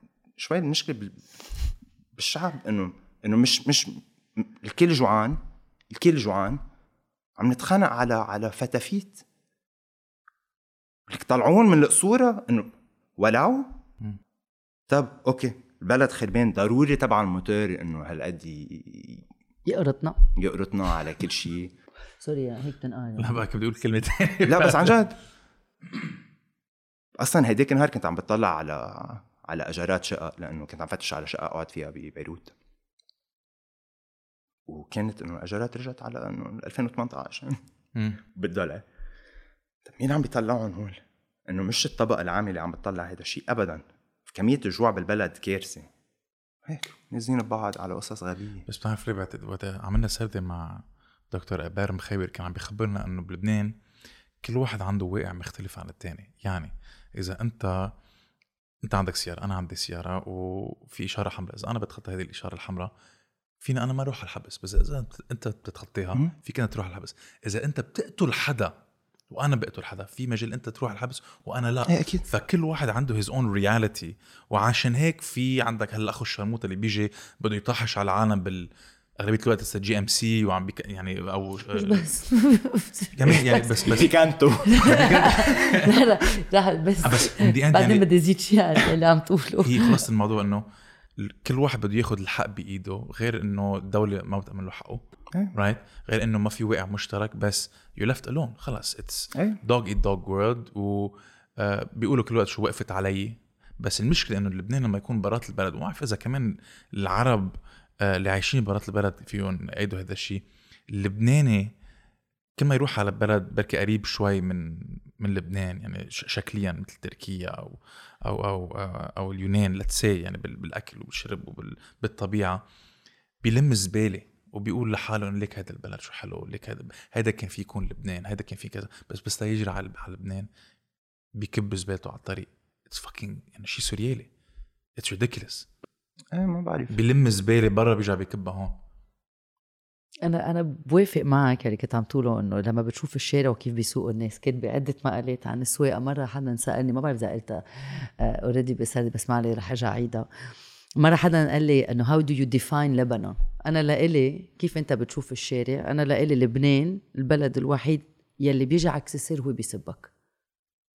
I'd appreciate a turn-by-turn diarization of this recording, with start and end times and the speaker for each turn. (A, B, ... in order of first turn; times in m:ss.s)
0:00.4-0:06.6 A
0:07.4-0:09.2 A
0:11.1-0:13.8 A
0:14.9-0:19.3 A
0:19.6-0:20.2 B
0:20.4-0:21.7 A
0:22.2-0:23.4 B
0:23.2-0:25.0 C
0:24.4-0:25.2 A
0:27.2-0:32.5 A
0:34.7-0:37.6 A
0:38.2-0:38.8 A
0:39.8-0:45.9 A
0:46.6-0:48.7 A
0:48.7-0:53.8 C
0:54.4-0:57.9 C
0:58.8-1:02.9 C
1:03.6-1:08.7 C
1:09.3-1:22.1 C
1:11.9-1:12.3 A
1:21.7-1:24.1 B
1:23.2-1:24.1 C
1:23.8-1:25.5 A
1:24.6-1:30.0 B
1:24.8-1:26.0 C
1:27.0-1:28.0 C
1:29.6-1:30.6 C
1:31.2-1:35.0 C
1:35.5-1:51.7 C
1:39.3-1:39.6 A
1:52.6-2:02.6 C
2:03.4-2:10.5 C
2:11.4-2:14.3 C
2:15.0-2:15.7 C
2:16.3-2:17.0 A
2:16.9-2:18.8 C
2:20.2-2:30.3 B
2:31.0-2:40.1 B